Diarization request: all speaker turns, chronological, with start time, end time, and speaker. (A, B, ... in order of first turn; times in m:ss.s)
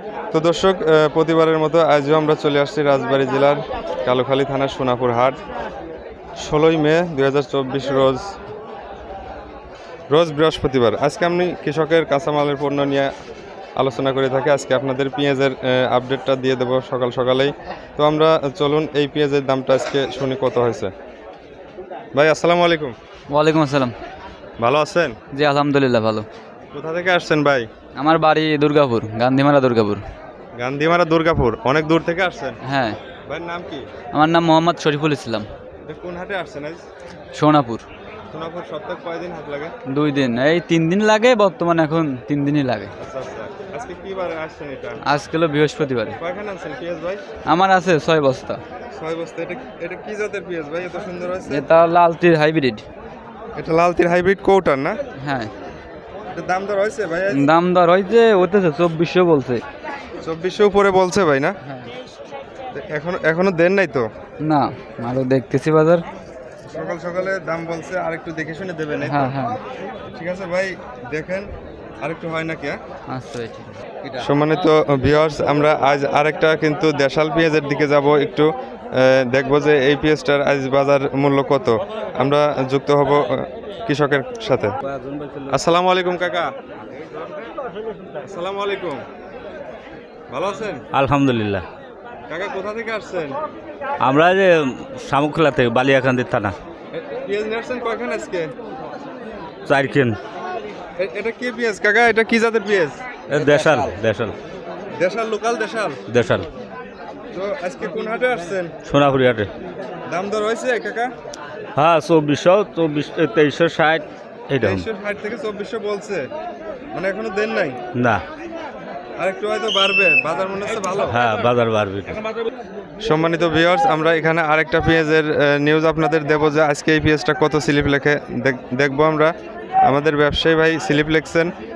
0:00.3-0:05.4 A
0:06.4-0:08.3 A
0:10.1-0:13.1 A
0:13.8-0:20.9 A
0:22.1-0:22.9 A
0:23.3-0:23.9 B
0:24.6-0:25.2 A
0:25.3-0:26.2 B
0:26.7-0:27.6 A
0:28.0-0:30.0 B
0:30.6-0:32.6 A
0:32.6-0:33.0 B
0:33.2-0:33.9 A
0:34.1-0:35.5 B
0:35.8-0:36.8 A
0:37.3-0:37.8 B
0:38.3-0:39.7 A
0:39.9-0:42.9 B
0:43.0-0:45.0 A
0:45.0-0:46.2 B
0:46.2-0:47.2 A
0:47.4-0:48.6 B
0:48.9-0:51.6 A
0:51.5-0:52.8 B
0:53.6-0:55.0 A
0:55.2-0:55.5 B
0:56.3-0:57.5 A
0:57.3-0:59.6 B
1:00.2-1:01.5 A
1:01.6-1:01.9 B
1:02.7-1:04.0 A
1:04.4-1:06.0 B
1:06.7-1:09.4 A
1:09.1-1:09.6 B
1:10.1-1:11.5 A
1:12.0-1:12.8 A
1:13.1-1:14.1 B
1:14.2-1:24.7 A
1:24.8-1:25.6 C
1:25.5-1:26.5 A
1:28.2-1:29.0 A
1:30.3-1:30.8 A
1:30.9-1:31.6 C
1:32.3-1:33.4 A
1:34.0-1:36.6 C
1:36.9-1:38.5 A
1:39.6-1:40.2 C
1:41.0-1:43.0 A
1:43.3-1:44.4 C
1:45.0-1:46.0 A
1:46.1-1:46.5 C
1:47.3-1:48.7 A
1:48.8-1:49.5 C
1:50.1-1:51.1 A
1:51.8-1:54.8 C
1:54.6-1:56.3 A
1:56.9-1:57.8 A
1:57.9-1:58.2 C
1:59.2-2:01.2 A
2:01.1-2:02.2 C
2:03.0-2:09.3 A
2:09.8-2:11.5 A